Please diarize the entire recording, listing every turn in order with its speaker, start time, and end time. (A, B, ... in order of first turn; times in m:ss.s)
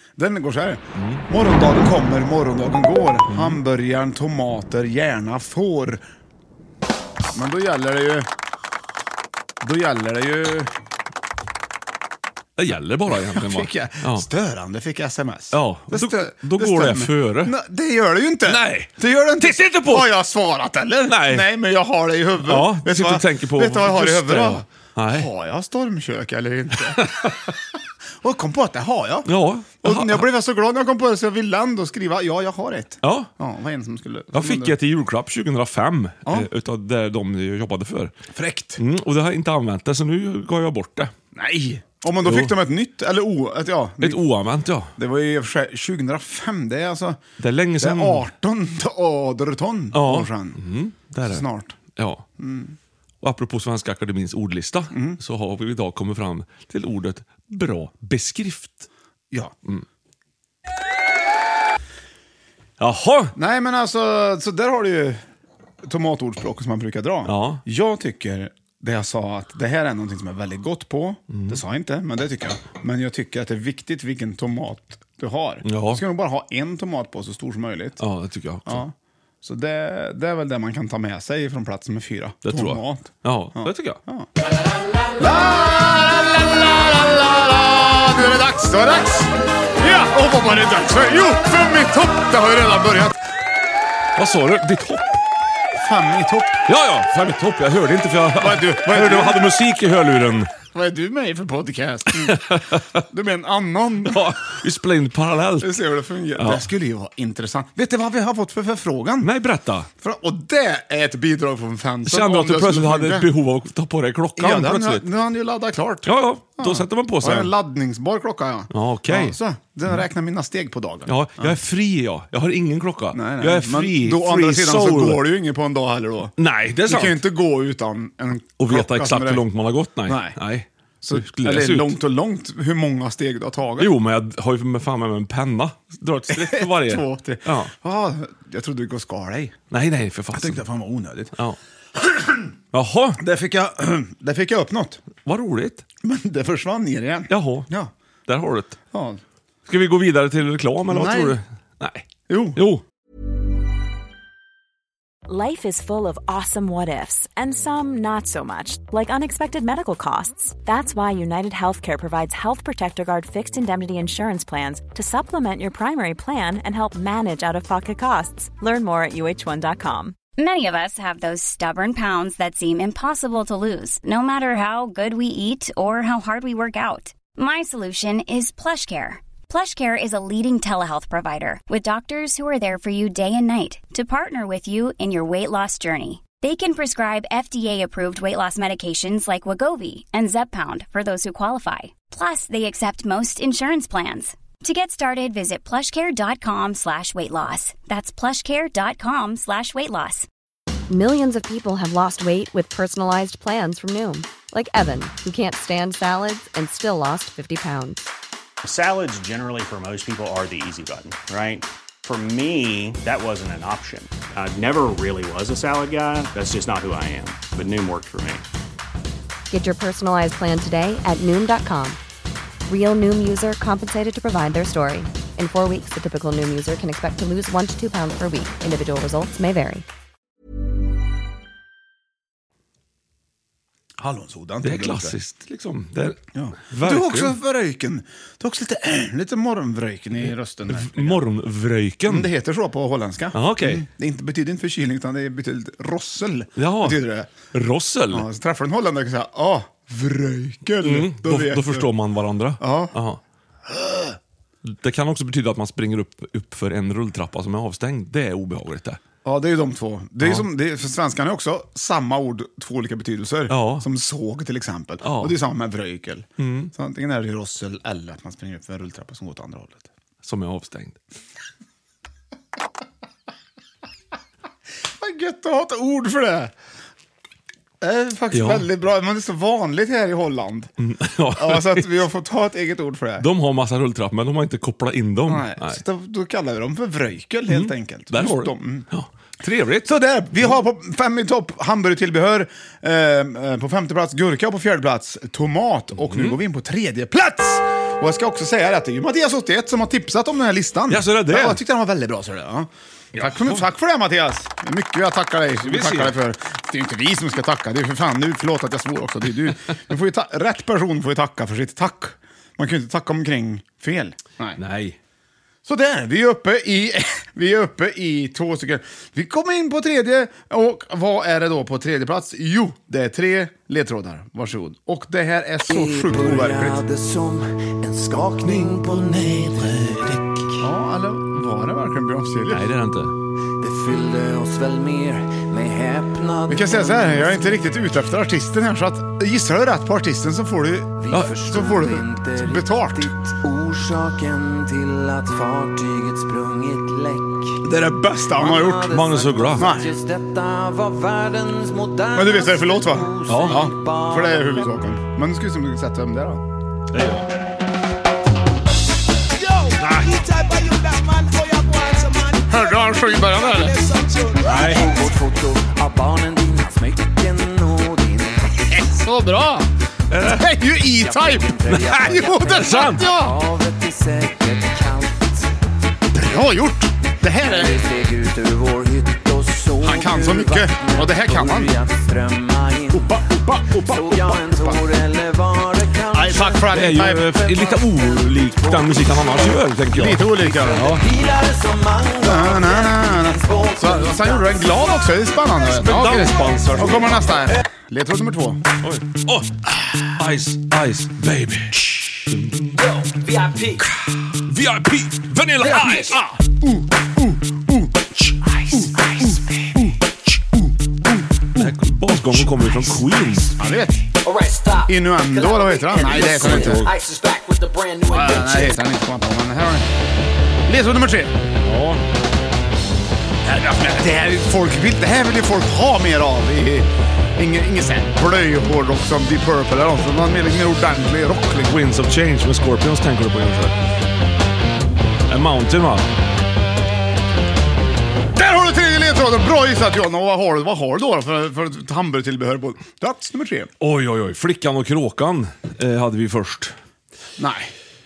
0:00.2-0:06.0 A
0:01.0-0:01.2 B
0:03.3-0:03.6 B
0:07.3-0:08.3 A
0:09.6-0:10.7 A
0:12.6-0:14.3 B
0:13.1-0:27.3 A
0:15.5-0:17.5 B
0:18.5-0:20.1 B
0:21.1-0:21.5 B
0:22.4-0:25.3 B
0:27.0-0:27.4 B
0:28.2-0:29.3 A
0:29.3-0:30.3 B
0:29.8-0:34.8 A
0:33.0-0:33.3 B
0:34.3-0:38.1 B
0:38.3-0:38.8 A
0:38.8-0:41.1 B
0:41.3-0:44.2 A
0:42.2-0:42.5 B
0:44.0-0:44.9 B
0:45.0-0:47.2 A
0:47.4-0:48.3 B
0:47.8-0:50.6 A
0:49.9-0:51.4 B
0:51.2-0:51.8 A
0:52.0-0:52.2 B
0:52.4-0:52.8 A
0:53.2-0:58.9 B
0:54.9-0:55.2 A
1:02.8-1:03.3 B
1:03.4-1:05.2 A
1:05.8-1:18.0 A
1:07.3-1:07.6 B
1:11.3-1:11.6 B
1:15.6-1:16.0 B
1:18.0-1:18.8 B
1:18.7-1:24.3 A
1:22.4-1:24.0 B
1:25.2-1:33.2 A
1:34.2-1:35.2 B
1:35.8-1:36.6 A
1:36.7-1:40.5 B
1:38.4-1:39.5 A
1:40.7-1:42.4 A
1:42.2-1:43.0 B
1:43.1-1:44.3 A
1:44.0-1:45.8 B
1:45.6-1:49.3 A
1:46.4-1:46.6 B
1:49.2-1:49.9 B
1:50.0-1:53.3 A
1:52.1-1:55.1 B
1:54.4-2:01.5 A
1:56.0-1:57.5 B
1:58.7-1:59.4 B
2:01.1-2:05.2 B
2:03.1-2:06.3 A
2:06.4-2:07.2 B
2:06.8-2:09.4 A
2:08.6-2:12.0 B
2:10.1-2:10.4 A
2:11.0-2:13.9 A
2:13.8-2:17.7 B
2:16.3-2:19.6 A
2:19.7-2:20.6 B
2:20.3-2:21.3 A
2:22.0-2:22.5 A
2:22.7-2:23.2 B
2:23.2-2:25.0 A
2:25.2-2:25.8 B
2:26.0-2:27.9 A
2:27.3-2:27.7 B
2:28.3-2:28.8 B
2:28.9-2:29.2 A
2:29.7-2:32.8 B
2:30.9-2:31.4 A
2:32.3-2:32.6 A
2:35.3-2:50.2 C
2:50.4-3:20.3 D
3:20.9-3:28.0 E
3:28.6-3:38.4 F
3:39.5-3:42.0 E
3:42.7-3:49.8 E
3:54.0-3:55.2 A
3:54.6-3:57.4 B
3:56.4-4:01.2 A
4:00.7-4:02.3 B
4:02.1-4:07.3 A
4:03.3-4:03.8 B
4:06.6-4:07.0 B
4:07.5-4:08.3 B
4:08.1-4:11.9 A
4:10.8-4:13.2 B
4:12.6-4:12.9 A
4:13.7-4:14.2 A
4:14.6-4:19.0 B
4:19.2-4:29.9 A
4:23.5-4:23.9 B
4:25.0-4:25.4 B
4:26.4-4:26.7 B
4:30.2-4:31.0 B
4:35.0-4:36.5 A
4:37.8-4:40.7 A
4:38.3-4:38.7 B
4:40.8-4:41.9 B
4:41.4-4:43.3 A
4:43.2-4:45.8 B
4:45.3-4:48.9 A
4:47.5-4:50.6 B
4:49.8-5:14.6 A
4:56.0-4:56.4 B
5:00.9-5:01.6 B
5:03.1-5:03.6 B
5:05.6-5:06.2 B
5:14.6-5:15.0 B
5:15.6-5:26.8 A
5:25.7-5:30.4 G
5:28.4-5:28.7 A
5:30.6-5:32.7 A
5:32.5-5:33.1 B
5:33.8-5:34.3 F
5:34.6-5:37.3 G
5:36.5-5:43.2 A
5:41.4-5:47.5 G
5:47.6-5:48.9 A
5:48.4-5:54.6 G
5:48.8-5:49.7 B
5:49.6-5:49.9 A
5:52.1-5:56.4 A
5:53.3-5:53.7 B
5:56.9-5:57.3 B
5:59.8-6:00.1 B
6:00.3-6:02.3 G
6:02.5-6:03.8 A
6:03.9-6:06.1 G
6:04.4-6:04.9 B
6:05.0-6:05.7 F
6:06.6-6:07.9 F
6:07.0-6:07.3 G
6:08.7-6:09.7 A
6:10.1-6:10.5 B
6:10.2-6:13.4 A
6:11.3-6:12.3 F
6:11.7-6:13.1 B
6:12.2-6:15.3 G
6:13.3-6:13.6 F
6:16.1-6:17.8 A
6:17.6-6:18.4 G
6:17.7-6:18.6 F
6:18.9-6:23.0 G
6:19.8-6:21.8 A
6:22.9-6:24.8 A
6:23.9-6:26.6 G
6:24.4-6:25.0 F
6:26.1-6:27.4 A
6:26.7-6:31.1 B
6:27.7-6:28.1 G
6:29.9-6:31.0 A
6:30.5-6:33.7 G
6:32.2-6:38.6 A
6:35.7-6:37.5 B
6:38.8-6:42.7 B
6:42.8-6:43.8 H
6:44.4-6:46.2 B
6:45.6-6:50.0 A
6:50.5-6:51.7 A
6:51.6-6:53.5 B
6:53.6-6:54.1 A
6:54.2-6:58.8 H
6:54.9-6:56.9 A
6:56.1-6:56.9 B
6:58.1-6:59.9 A
7:00.7-7:01.4 A
7:01.6-7:02.0 B
7:03.4-7:11.7 A
7:11.6-7:13.8 B
7:15.3-7:16.1 B
7:18.3-7:23.7 A
7:23.8-7:26.8 B
7:27.4-7:27.7 A